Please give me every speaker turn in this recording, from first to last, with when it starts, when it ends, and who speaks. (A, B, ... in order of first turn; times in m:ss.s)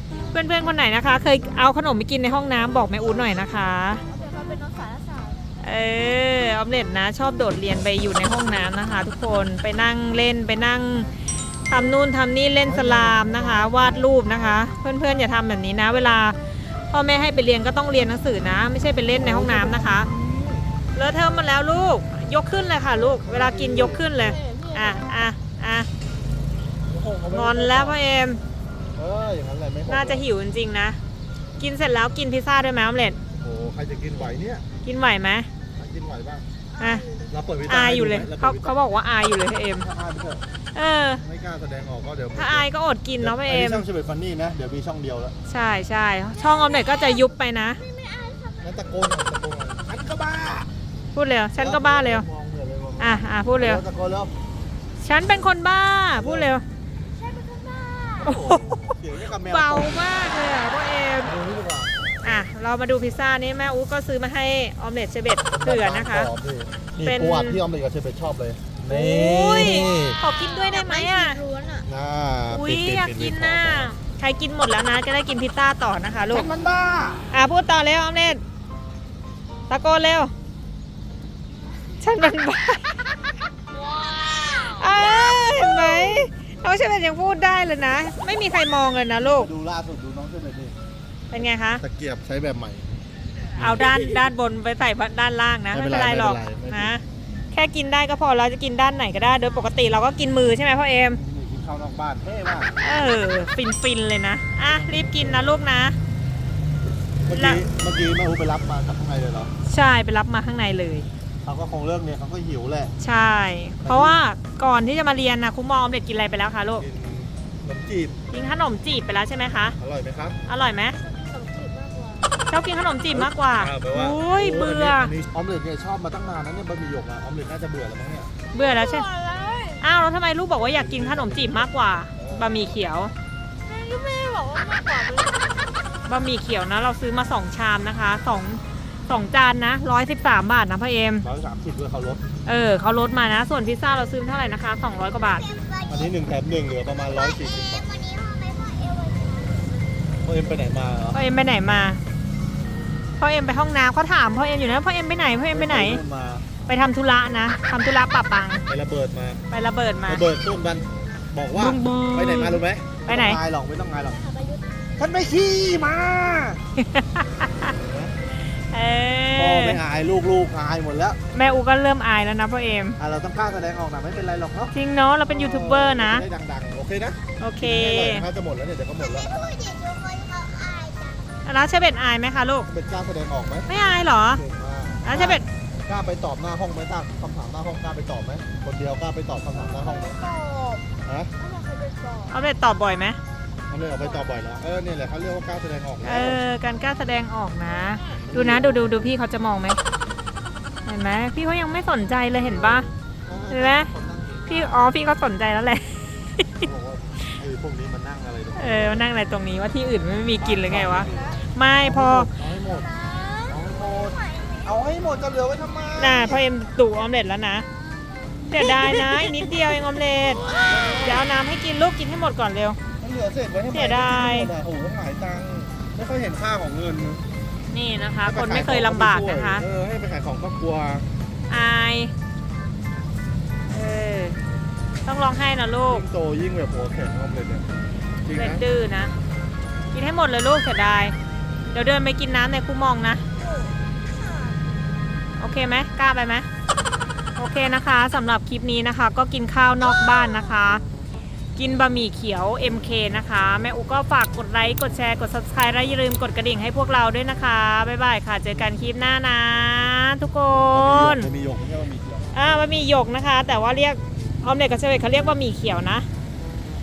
0:00.3-0:04.0 A
0:04.0-0:05.4 B
0:05.6-0:11.1 A
0:11.7-0:16.4 A
0:12.6-0:14.6 C
0:16.9-0:20.1 A
0:19.1-0:20.6 C
0:20.9-0:25.9 A
0:23.2-0:24.4 C
0:24.2-0:25.2 B
0:26.9-0:28.0 C
0:27.3-0:28.4 A
0:28.9-0:30.2 C
0:29.8-0:31.0 A
0:31.6-0:33.2 A
0:33.3-0:34.6 C
0:34.8-0:35.5 A
0:35.7-0:36.4 C
0:36.7-0:37.3 B
0:36.8-0:37.0 A
0:37.3-0:38.7 C
0:37.7-0:39.9 A
0:39.8-0:40.4 C
0:40.7-0:41.2 A
0:41.2-0:42.6 C
0:42.3-0:43.8 A
0:43.2-0:45.3 C
0:45.5-0:47.8 A
0:46.4-0:47.2 B
0:47.8-0:48.9 B
0:48.6-0:50.7 C
0:51.1-0:52.2 A
0:51.6-0:54.3 C
0:53.0-0:53.8 A
0:55.0-0:56.6 A
0:56.1-0:56.5 C
0:57.1-0:58.4 B
0:58.2-1:00.0 C
0:58.2-1:01.3 A
1:01.2-1:02.3 C
1:02.2-1:06.3 A
1:05.5-1:10.2 C
1:07.0-1:07.6 A
1:08.9-1:11.4 A
1:10.4-1:11.8 B
1:11.8-1:13.9 C
1:12.5-1:16.5 A
1:16.3-1:17.3 C
1:17.3-1:18.4 A
1:19.7-1:20.3 A
1:22.0-1:23.0 A
1:23.9-1:24.6 B
1:24.4-1:29.5 A
1:29.2-1:30.8 C
1:31.3-1:31.8 A
1:31.8-1:32.9 C
1:33.6-1:41.2 A
1:33.6-1:34.0 C
1:35.7-1:36.9 C
1:41.1-1:42.7 C
1:42.8-1:46.0 A
1:44.6-1:45.6 C
1:47.2-1:49.5 C
1:47.3-1:47.6 A
1:49.6-1:51.1 A
1:51.4-1:52.9 C
1:53.0-1:56.8 A
1:53.8-1:54.2 C
1:56.8-1:58.2 C
1:58.3-1:59.8 A
1:59.8-2:00.4 C
2:00.4-2:01.0 A
2:01.0-2:02.4 B
2:02.5-2:05.1 A
2:03.1-2:08.3 C
2:08.5-2:09.1 A
2:08.6-2:09.8 B
2:09.8-2:13.1 A
2:10.6-2:12.6 C
2:13.6-2:15.9 B
2:16.0-2:21.2 A
2:21.2-2:22.2 C
2:22.4-2:25.5 A
2:25.4-2:26.1 B
2:25.9-2:27.9 C
2:27.3-2:29.9 B
2:30.2-2:31.2 C
2:31.1-2:32.0 A
2:33.2-2:36.0 A
2:35.5-2:36.6 C
2:36.6-2:38.6 A
2:38.7-2:39.4 C
2:39.5-2:40.2 A
2:40.0-2:44.2 C
2:41.5-2:43.4 A
2:44.1-2:44.8 B
2:45.0-2:46.6 C
2:46.8-2:47.7 A
2:47.7-2:48.1 C
2:48.7-2:49.8 A
2:49.3-2:51.2 C
2:51.3-2:53.0 A
2:53.0-2:54.7 C
2:54.7-2:56.2 A
2:55.3-2:59.4 C
2:57.4-2:58.3 A
2:59.0-3:01.3 B
3:01.4-3:02.7 A
3:02.7-3:03.7 C
3:03.7-3:04.4 A
3:04.3-3:10.2 C
3:05.0-3:05.4 A
3:10.2-3:10.9 B
3:11.0-3:11.3 C
3:11.4-3:12.3 B
3:12.3-3:13.2 A
3:13.7-3:16.4 C
3:14.0-3:14.2 B
3:16.0-3:19.8 A
3:18.2-3:19.1 C
3:20.8-3:22.9 A
3:22.4-3:24.8 C
3:23.5-3:23.9 A
3:24.5-3:26.7 A
3:26.6-3:29.1 C
3:28.6-3:32.3 A
3:30.4-3:32.9 C
3:30.9-3:31.4 B
3:32.7-3:34.7 B
3:33.5-3:36.4 C
3:35.9-3:37.6 A
3:38.0-3:38.4 B
3:38.5-3:42.8 A
3:40.4-3:40.8 B
3:40.6-3:41.3 C
3:43.0-3:47.2 C
3:43.7-3:44.5 A
3:47.7-3:49.6 A
3:48.2-3:51.1 C
3:51.5-3:52.1 A
3:53.7-3:54.4 A
3:55.0-3:56.0 A
3:55.8-3:57.7 C
3:58.2-3:58.6 C
3:58.3-3:59.1 A
3:59.9-4:01.1 A
4:01.7-4:03.2 A
4:03.4-4:04.8 B
4:05.4-4:06.5 A
4:07.4-4:10.8 A
4:11.6-4:21.3 A
4:20.7-4:22.3 C
4:22.3-4:26.1 A